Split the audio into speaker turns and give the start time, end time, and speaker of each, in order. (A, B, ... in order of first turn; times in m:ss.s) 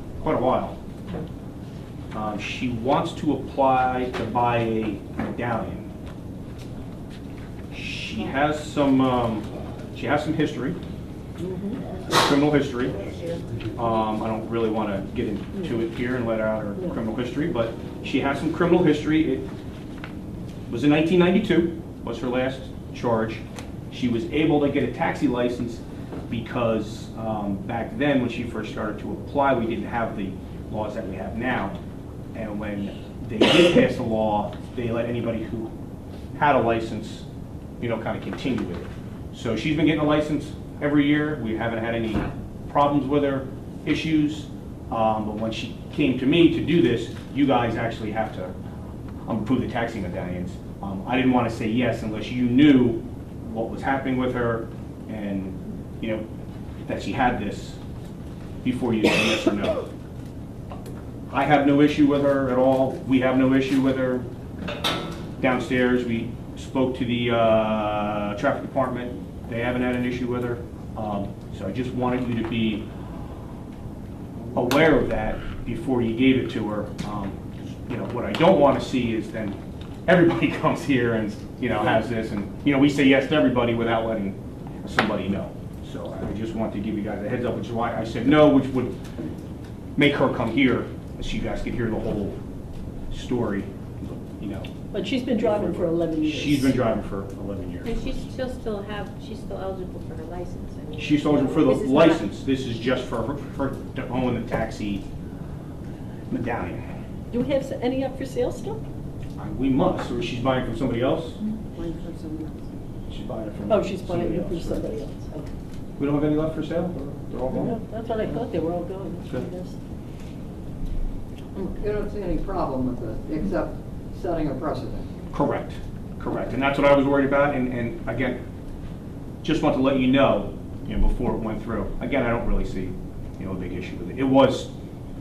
0:00.2-0:00.8 A
0:02.1-0:05.9 A
0:07.7-0:10.8 A
0:11.4-0:11.8 B
0:12.1-0:13.0 A
0:12.9-0:13.4 C
0:13.7-0:19.5 A
0:20.7-0:31.8 A
0:32.3-0:35.7 A
0:36.3-0:37.2 A
0:37.8-0:48.5 A
0:49.2-0:56.2 A
0:56.8-0:57.8 A
0:58.6-0:59.9 A
1:01.3-1:04.2 A
1:05.4-1:12.8 A
1:14.5-1:29.0 A
1:30.0-1:32.4 A
1:33.1-1:34.7 A
1:34.9-1:36.8 B
1:35.2-1:38.3 A
1:37.8-1:42.2 C
1:41.0-1:45.0 A
1:46.3-1:46.8 A
1:47.3-1:48.8 B
1:49.4-1:51.4 A
1:51.7-1:52.3 C
1:51.8-1:52.6 B
1:53.1-1:55.0 A
1:53.7-1:55.5 B
1:56.0-1:58.5 A
1:57.5-1:59.8 B
2:01.6-2:05.1 D
2:05.3-2:08.4 A
2:09.4-2:14.7 A